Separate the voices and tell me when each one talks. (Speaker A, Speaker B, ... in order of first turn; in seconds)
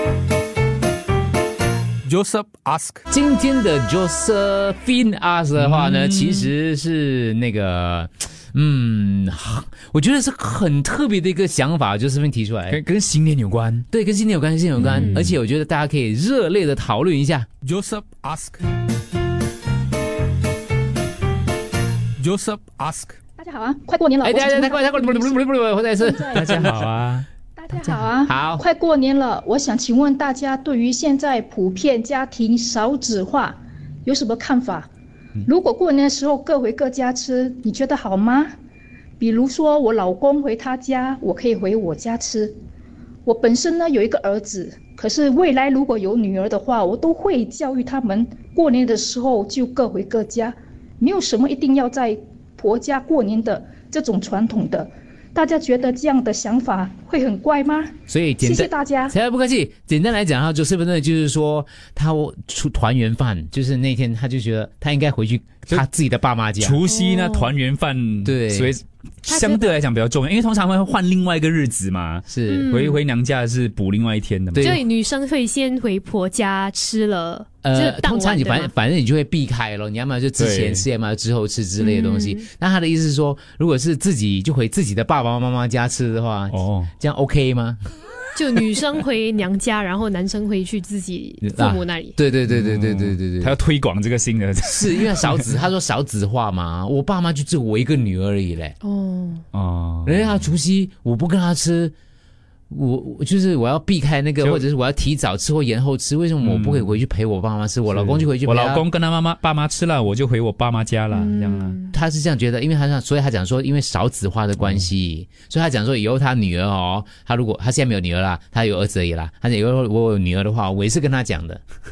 Speaker A: 2.0-3.0, 17.6-18.6, 22.2-23.2
Speaker B: 3.1-12.8, 13.9-17.5, 24.2-26.9, 28.2-28.6, 58.1-66.8, 68.2-68.7, 72.3-72.7, 74.5-74.8, 77.6-87.8, 91.4-93.5, 94.7-98.8, 100.1-101.9, 102.7-108.8, 111.9-121.6
Speaker C: 5.6-6.5, 12.7-13.8, 14.9-15.3, 26.4-27.3, 66.6-74.7, 80.4-80.9, 86.5-86.9, 92.5-95.5, 99.5-100.4, 106.4-107.0, 107.9-111.8
Speaker D: 14.8-15.2, 27.8-28.0, 66.9-67.5, 69.2-69.8, 72.5-73.0, 74.6-78.7, 81.8-82.5, 88.3-92.2, 98.8-99.4, 111.1-111.9
Speaker E: 23.4-26.5, 27.6-34.9, 35.5-38.5, 39.2-42.5, 43.2-59.1